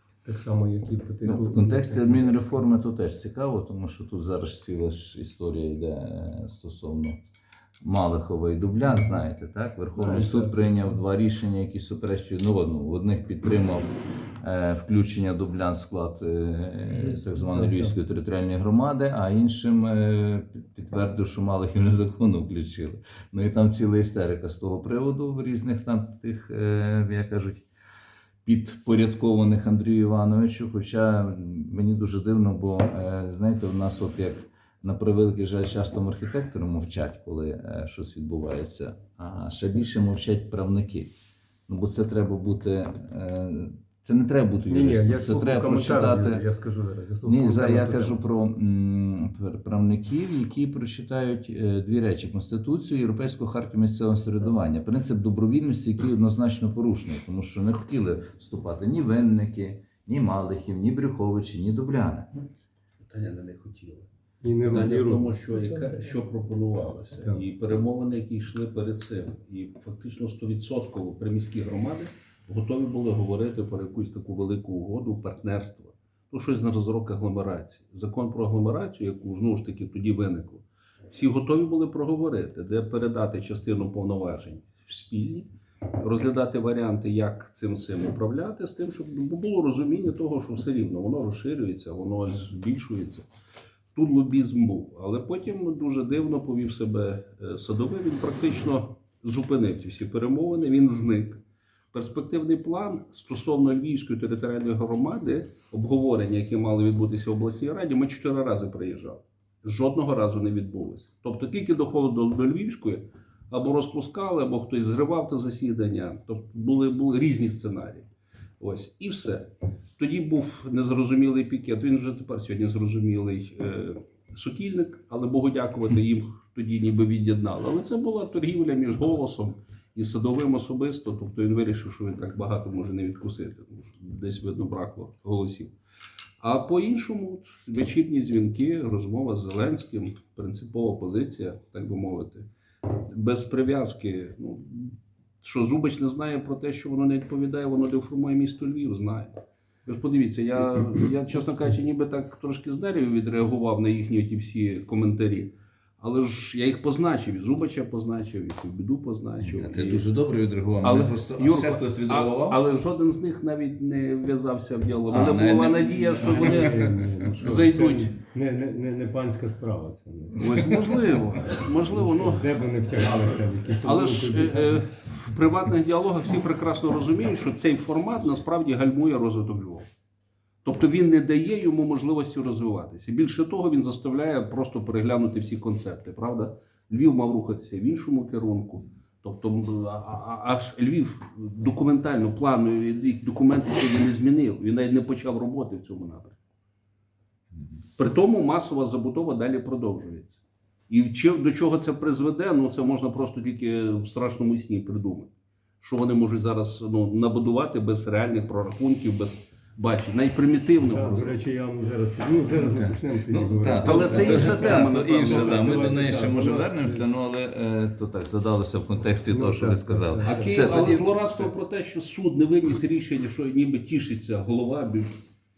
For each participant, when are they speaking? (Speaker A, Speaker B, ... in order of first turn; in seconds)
Speaker A: 0.2-2.6, 10.0-10.7, 17.0-17.9, 44.7-48.2, 64.4-65.4, 166.2-171.0, 171.8-174.9, 210.9-217.1, 219.3-220.9
Speaker B: 1.2-7.2, 7.8-13.8, 14.4-27.7, 28.4-41.1, 41.7-46.4, 47.2-62.3, 159.4-162.6, 165.1-167.1, 212.6-221.1
Speaker C: 63.0-64.1, 64.6-93.3, 94.0-101.4, 101.9-118.1, 118.6-135.7, 136.4-149.3, 149.9-160.1, 160.8-166.8, 167.4-168.2, 170.4-172.6, 173.8-179.9, 180.6-196.4, 198.0-211.4, 213.8-215.9, 220.2-225.2